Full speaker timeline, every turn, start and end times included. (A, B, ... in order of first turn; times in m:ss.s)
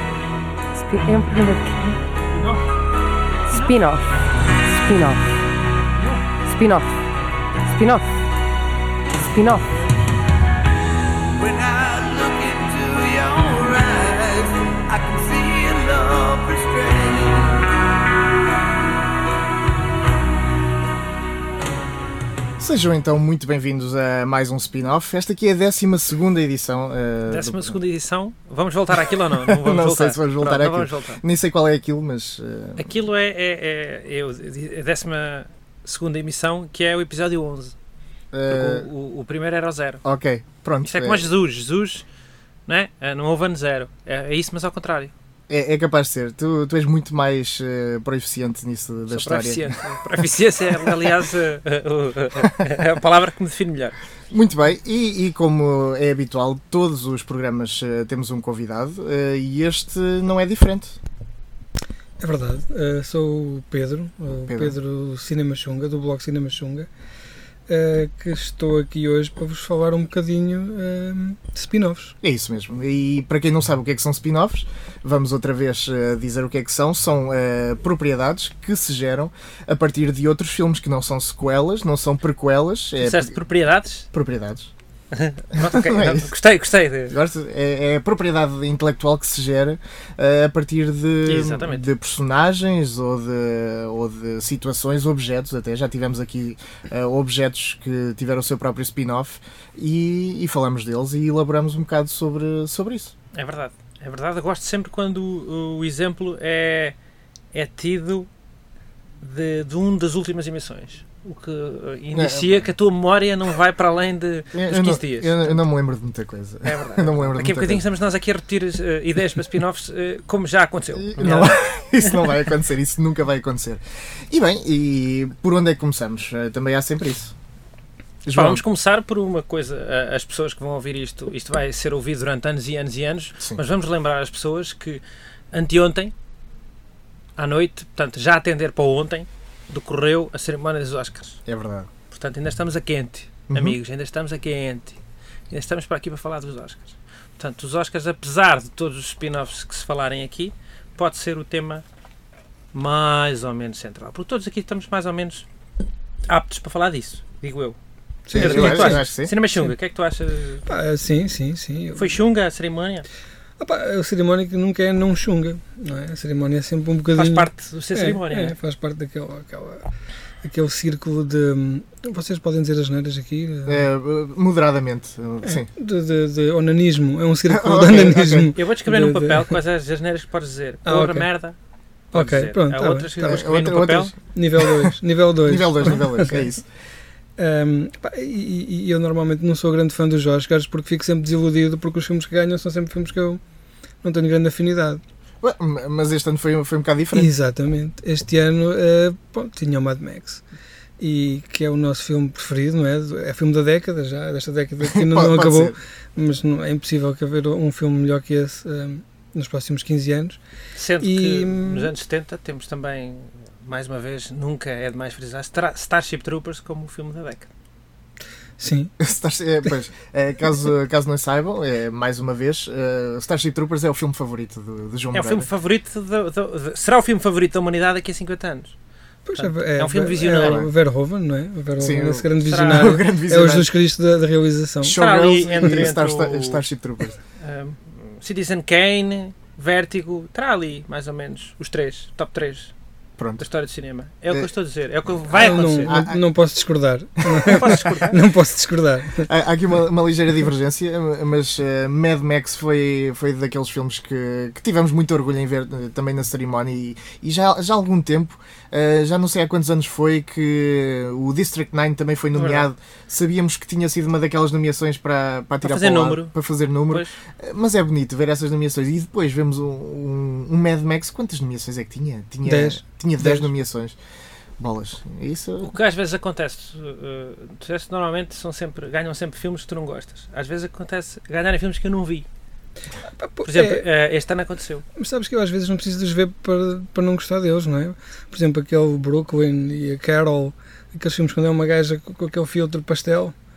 0:00.7-0:02.0 A
0:03.5-0:05.4 A
0:06.4-0:07.0 A
0:07.6-0:08.2 A
0:09.2-0:09.8 A
0:11.4-0:17.6 B
0:22.6-0:27.8 C
0:27.3-0:31.2 D
0:29.1-0:32.9 C
0:32.8-0:37.7 D
0:38.3-0:38.9 C
0:38.5-0:40.0 D
0:40.0-0:41.3 C
0:40.8-0:42.0 D
0:42.7-0:45.1 D
0:45.5-0:51.1 C
0:49.1-0:54.0 D
0:54.3-1:01.0 C
1:02.2-1:06.9 E
1:04.4-1:04.8 C
1:07.7-1:12.2 E
1:12.2-1:23.4 C
1:23.0-1:24.1 D
1:24.1-1:24.7 C
1:25.1-1:27.2 D
1:25.6-1:26.3 C
1:27.1-1:43.1 C
1:31.2-1:31.9 D
1:43.3-1:47.0 D
1:47.5-1:48.3 D
1:49.2-1:55.6 D
1:52.1-1:52.7 C
1:54.5-1:57.8 C
1:56.6-2:02.2 D
2:01.0-2:07.3 C
2:08.2-2:08.6 C
2:08.3-2:16.1 D
2:17.4-2:21.4 D
2:21.5-2:21.9 C
2:22.1-2:25.0 D
2:23.5-2:23.8 C
2:25.5-2:31.8 D
2:32.7-2:35.4 D
2:36.3-2:37.8 D
2:38.3-2:39.7 E
2:38.3-2:40.6 D
2:38.3-2:39.4 C
2:40.7-2:42.2 E
2:42.0-2:43.1 D
2:43.6-2:49.8 E
2:47.2-2:48.6 D
2:50.4-2:53.9 E
2:53.7-2:55.7 C
2:55.4-2:59.6 E
2:57.5-2:58.5 C
2:58.6-3:01.6 D
3:00.9-3:01.3 E
3:02.1-3:03.4 E
3:02.1-3:04.1 D
3:03.2-3:06.6 C
3:04.3-3:06.5 E
3:07.4-3:13.4 E
3:14.0-3:15.0 E
3:15.4-3:17.3 C
3:17.1-3:20.4 E
3:21.0-3:30.4 E
3:24.8-3:25.8 C
3:30.8-3:37.5 D
3:31.0-3:31.9 E
3:38.6-3:38.9 E
3:39.0-3:45.5 C
3:45.1-3:48.8 D
3:49.3-3:55.0 E
3:49.4-3:50.7 D
3:50.4-3:50.7 C
3:51.8-3:53.7 C
3:52.4-3:52.9 D
3:54.8-3:57.2 C
3:54.9-3:56.6 D
3:57.4-4:02.7 D
4:03.2-4:03.5 C
4:03.4-4:06.0 D
4:05.3-4:06.2 C
4:05.3-4:09.3 E
4:07.3-4:07.9 C
4:07.5-4:08.2 D
4:09.2-4:34.0 C
4:22.4-4:22.7 D
4:25.6-4:26.3 D
4:26.9-4:27.2 D
4:32.4-4:33.5 E
4:34.6-4:35.7 C
4:35.6-4:42.3 D
4:43.2-4:43.8 E
4:43.4-4:44.8 D
4:45.0-4:53.3 E